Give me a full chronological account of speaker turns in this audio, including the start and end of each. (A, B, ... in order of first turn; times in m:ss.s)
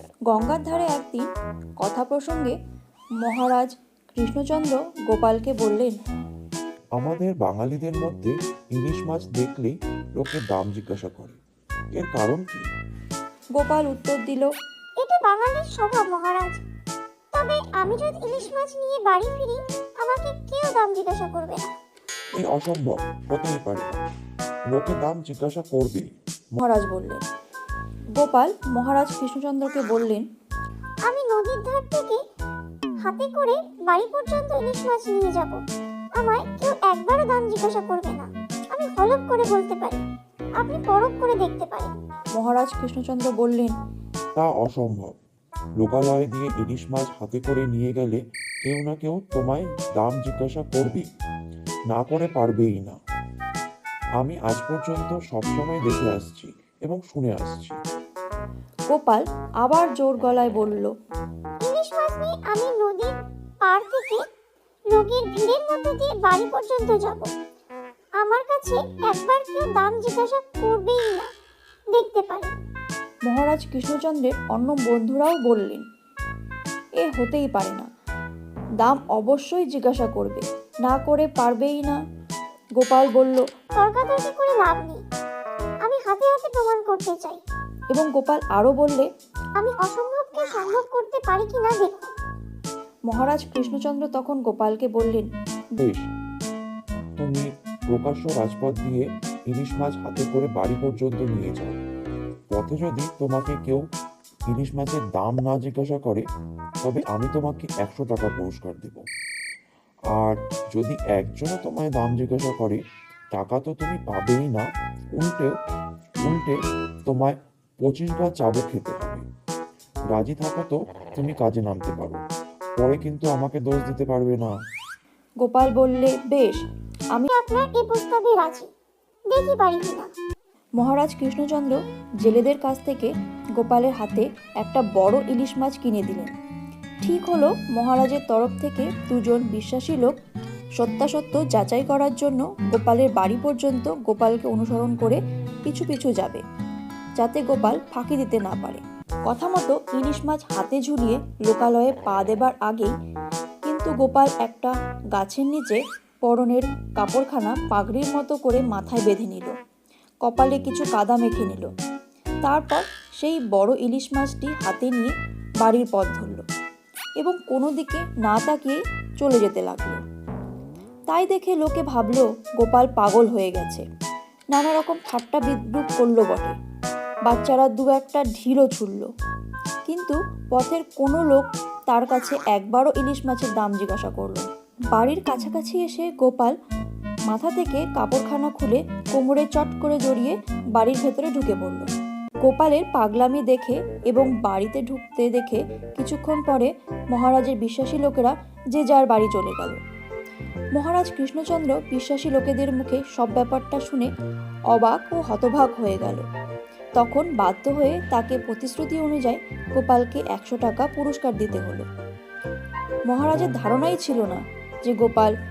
0:00.3-0:01.3 A
0:01.8-0:02.6 A
0:03.2-0:06.0 A
0:07.0-0:11.4 B
0:11.9-0:12.7 B
0:13.6-0:14.5 A
0:15.0-0:16.6 C
0:17.3-0:21.7 C
0:22.3-0:24.0 B
0:24.7-0:26.0 B
0:26.6-0:27.2 A
0:28.1-0:30.2 A
0:31.0-0:32.2 C
0:33.0-0:35.6 C
0:36.2-0:40.0 C
0:40.6-0:42.0 C
0:42.4-0:43.7 A
0:44.4-0:45.1 B
0:45.8-0:51.0 B
0:51.9-0:53.0 B
0:54.2-0:57.8 B
0:58.9-1:00.9 A
1:01.6-1:04.2 C
1:04.9-1:07.3 C
1:08.2-1:11.3 C
1:11.9-1:12.5 C
1:13.3-1:15.8 A
1:17.0-1:17.8 A
1:18.8-1:22.0 A
1:22.8-1:23.4 A
1:23.8-1:25.0 C
1:25.8-1:27.4 C
1:27.9-1:29.1 A
1:29.6-1:32.1 C
1:33.1-1:35.3 A
1:35.8-1:36.0 B
1:37.2-1:41.8 B
1:42.5-1:43.8 B
1:44.5-1:46.2 B
1:46.8-1:49.0 B
1:50.1-1:52.8 B
1:53.3-1:55.5 B
1:56.2-1:59.2 B
2:00.1-2:02.2 B
2:02.8-2:04.5 B
2:05.4-2:06.6 A
2:07.3-2:08.7 C
2:09.3-2:10.1 C
2:10.8-2:16.3 A
2:17.0-2:20.1 A
2:20.8-2:26.4 A
2:27.2-2:32.9 A
2:33.6-2:39.5 A
2:40.2-2:41.7 A
2:42.4-2:45.1 A
2:45.6-2:46.4 A
2:47.2-2:50.0 A
2:51.1-2:53.8 A
2:54.5-2:56.5 A
2:57.2-2:59.1 A
2:59.9-3:06.5 A
3:07.3-3:11.9 A
3:12.4-3:19.8 A
3:20.8-3:24.1 A
3:24.7-3:26.2 A
3:27.0-3:31.8 A
3:33.1-3:35.3 A